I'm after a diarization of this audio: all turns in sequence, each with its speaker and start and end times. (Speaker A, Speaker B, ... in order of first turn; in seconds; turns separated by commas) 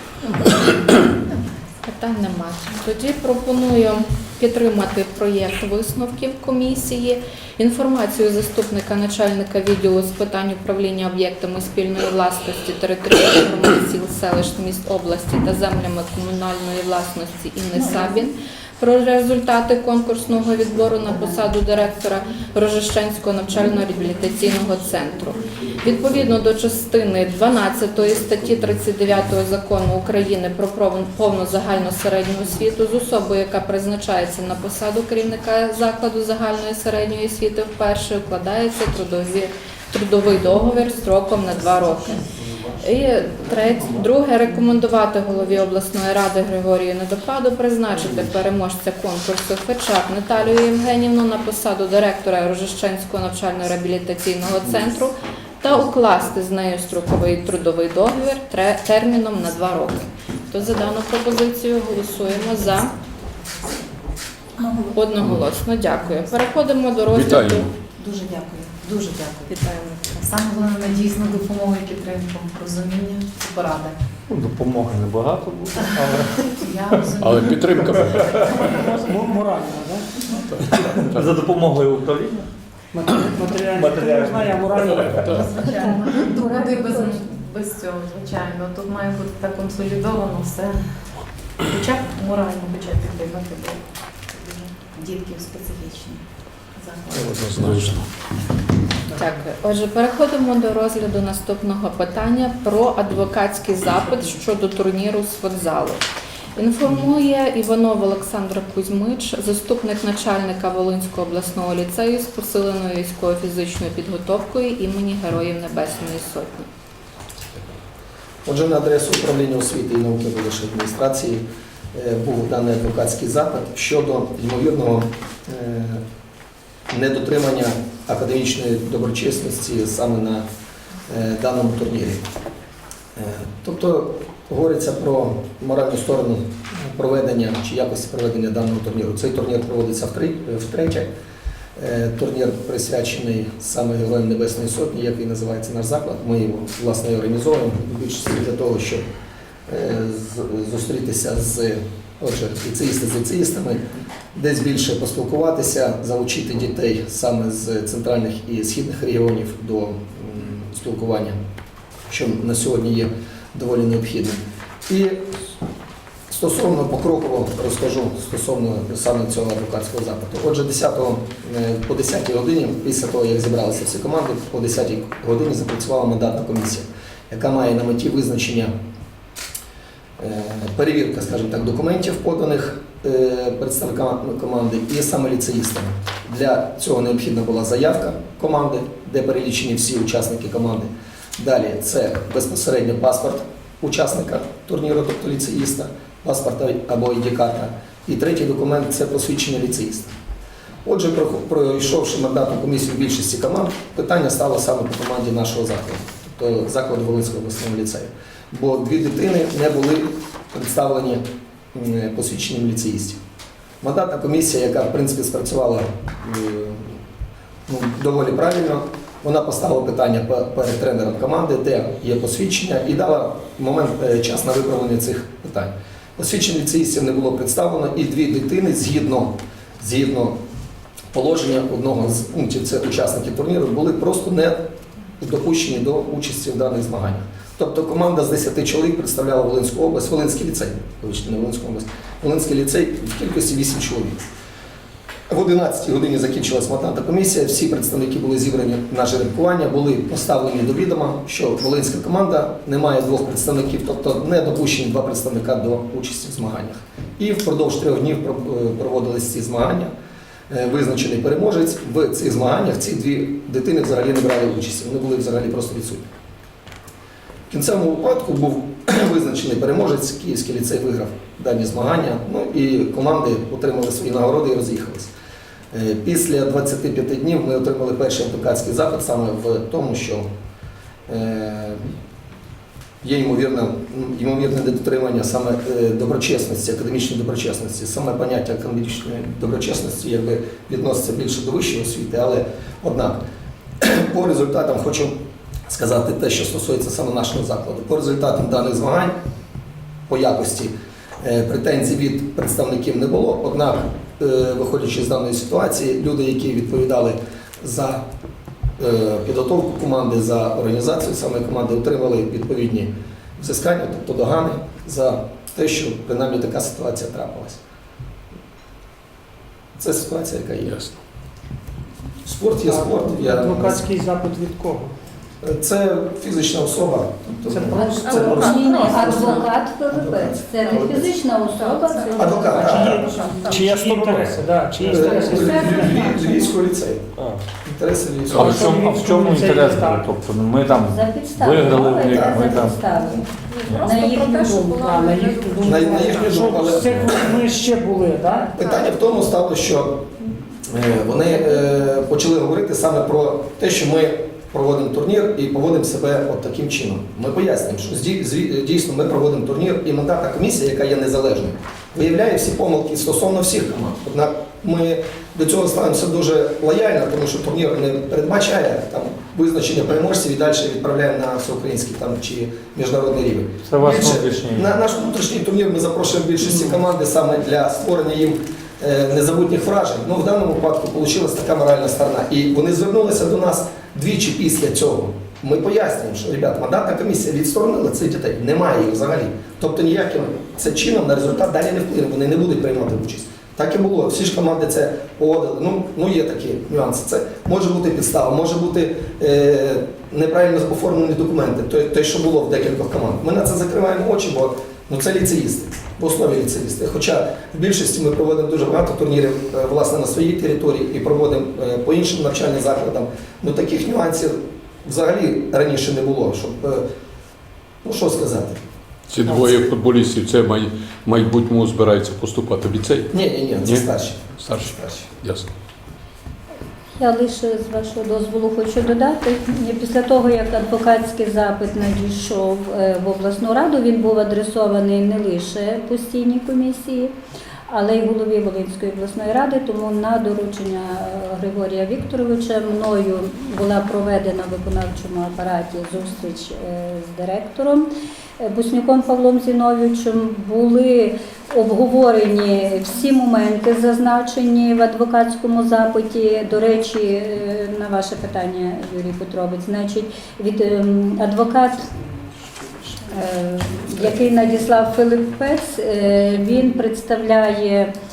Speaker A: 1.8-42.2, Speaker A: 42.8-62.9, Speaker B: 64.6-64.9, Speaker A: 64.9-67.7, Speaker C: 67.1-67.7, Speaker B: 68.0-74.0, Speaker A: 69.5-70.2, Speaker D: 74.3-76.6, Speaker B: 76.6-79.1, Speaker C: 77.2-78.6, Speaker D: 78.0-78.2, Speaker E: 78.6-80.1, Speaker C: 80.5-81.3, Speaker D: 80.8-82.5, Speaker E: 82.9-85.5, Speaker D: 83.7-85.2, Speaker C: 85.0-85.5, Speaker B: 85.2-90.9, Speaker F: 86.3-87.1, Speaker B: 91.6-98.1, Speaker C: 97.1-98.1, Speaker A: 99.2-106.0, Speaker A: 106.6-116.7, Speaker G: 118.5-126.0, Speaker G: 126.9-130.5, Speaker G: 131.1-132.2, Speaker G: 133.2-141.1, Speaker G: 141.8-149.1, Speaker G: 149.7-161.4, Speaker G: 162.1-165.3, Speaker G: 166.3-178.7, Speaker G: 180.2-200.1, Speaker G: 200.8-213.2, Speaker G: 213.8-217.0, Speaker G: 217.7-230.4, Speaker G: 231.1-244.2, Speaker G: 245.3-259.9, Speaker G: 260.5-266.1, Speaker G: 267.5-275.1, Speaker G: 275.7-280.3, Speaker G: 281.1-281.8, Speaker G: 283.0-293.2, Speaker G: 293.8-299.1, Speaker G: 300.1-308.0, Speaker G: 308.8-317.6, Speaker G: 319.8-320.8, Speaker C: 320.6-321.0, Speaker G: 322.2-323.9, Speaker E: 322.6-324.9, Speaker G: 325.4-331.2, Speaker E: 327.5-328.7, Speaker B: 328.3-328.8, Speaker F: 328.4-333.6, Speaker B: 330.6-333.6, Speaker G: 332.1-333.2, Speaker E: 332.6-336.5, Speaker D: 333.5-334.4, Speaker G: 334.9-338.6, Speaker F: 335.0-336.4, Speaker C: 338.3-338.7, Speaker D: 338.3-342.9, Speaker E: 338.4-340.1, Speaker F: 340.7-343.2, Speaker G: 342.1-342.4, Speaker A: 343.5-346.7, Speaker D: 343.6-343.9, Speaker F: 343.8-345.3, Speaker E: 344.4-348.6, Speaker G: 345.6-347.4, Speaker G: 348.6-350.1, Speaker G: 350.7-416.9, Speaker D: 373.6-374.7, Speaker G: 417.8-418.6, Speaker C: 419.1-423.9, Speaker G: 419.2-419.7, Speaker G: 423.1-425.0, Speaker C: 424.4-425.5, Speaker F: 427.0-437.2, Speaker F: 437.7-462.0, Speaker F: 463.0-467.9